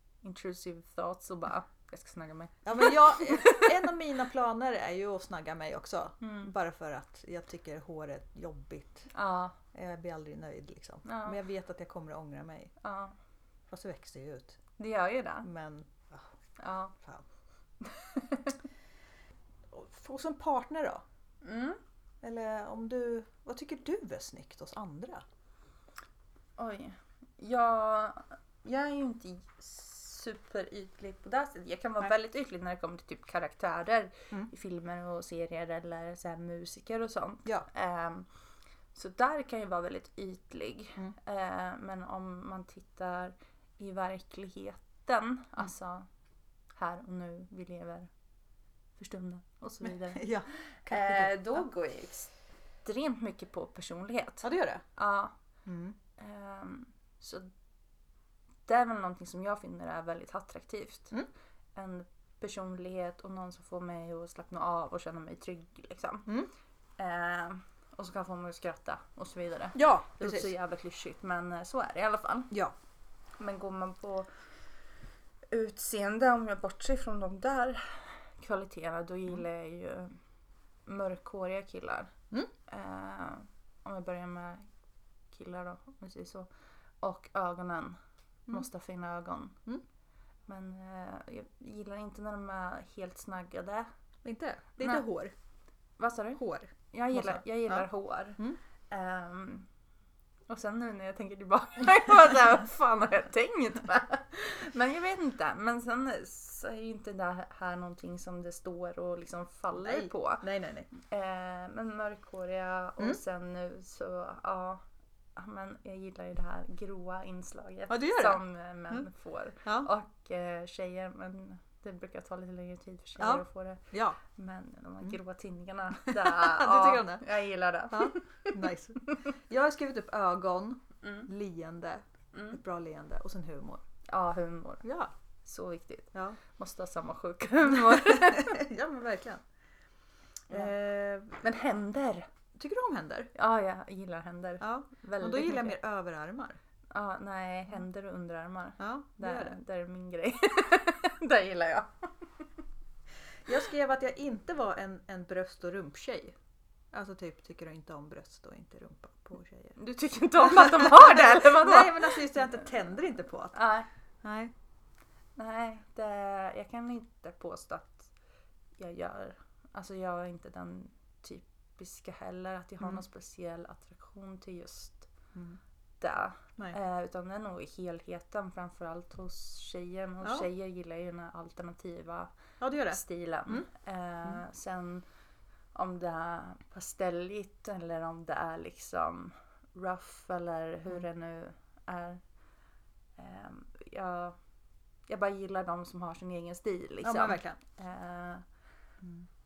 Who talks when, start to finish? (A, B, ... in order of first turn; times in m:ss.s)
0:00.2-0:03.9 A
0:02.6-0:09.1 B
0:06.2-0:06.5 A
0:09.1-0:09.6 A
0:09.7-0:12.7 B
0:11.0-0:11.4 A
0:12.8-0:13.2 A
0:13.7-0:14.6 B
0:14.8-0:15.5 A
0:15.4-0:16.3 B
0:16.6-0:16.9 A
0:17.8-0:18.6 A
0:19.7-0:21.0 B
0:21.4-0:21.8 A
0:22.2-0:25.2 B
0:26.6-0:38.3 A
0:38.9-0:46.1 A
0:46.8-0:48.1 A
0:49.0-0:50.3 A
0:49.8-0:51.6 B
0:50.9-0:52.3 A
0:52.8-0:55.3 A
0:54.4-0:54.8 B
0:55.7-0:56.0 B
0:56.2-0:57.5 A
0:58.7-1:01.1 A
1:01.8-1:06.3 A
1:07.0-1:12.5 A
1:09.8-1:10.5 B
1:13.4-1:14.3 A
1:15.5-1:20.2 A
1:20.9-1:22.1 A
1:22.7-1:24.7 A
1:25.3-1:26.5 A
1:27.0-1:28.0 A
1:28.5-1:29.6 A
1:30.5-1:33.9 A
1:34.2-1:35.3 B
1:36.0-1:39.7 A
1:36.4-1:37.9 B
1:40.5-1:54.8 A
1:49.8-1:50.9 B
1:55.4-2:09.3 A
1:57.9-1:59.1 B
1:59.6-1:59.9 B
2:03.2-2:04.2 B
2:06.0-2:07.2 B
2:07.9-2:13.8 B
2:11.0-2:11.3 A
2:12.3-2:12.6 A
2:14.1-2:14.8 A
2:14.8-2:15.1 B
2:15.4-2:18.6 A
2:17.7-2:19.4 B
2:20.5-2:21.4 B
2:21.4-2:22.3 A
2:22.6-2:23.3 B
2:23.4-2:25.8 A
2:24.6-2:26.6 B
2:26.9-2:32.1 A
2:28.8-2:29.6 B
2:33.5-2:36.4 B
2:36.9-2:39.8 B
2:39.8-2:42.5 A
2:40.4-2:43.6 B
2:43.5-2:43.9 A
2:44.2-2:44.5 B
2:45.4-2:48.1 A
2:48.8-2:55.1 A
2:55.3-2:55.6 B
2:56.0-3:02.3 A
3:00.2-3:00.5 B
3:02.6-3:03.7 B
3:02.9-3:05.0 A
3:05.7-3:12.2 A
3:13.2-3:14.4 A
3:15.1-3:18.4 A
3:17.0-3:17.6 B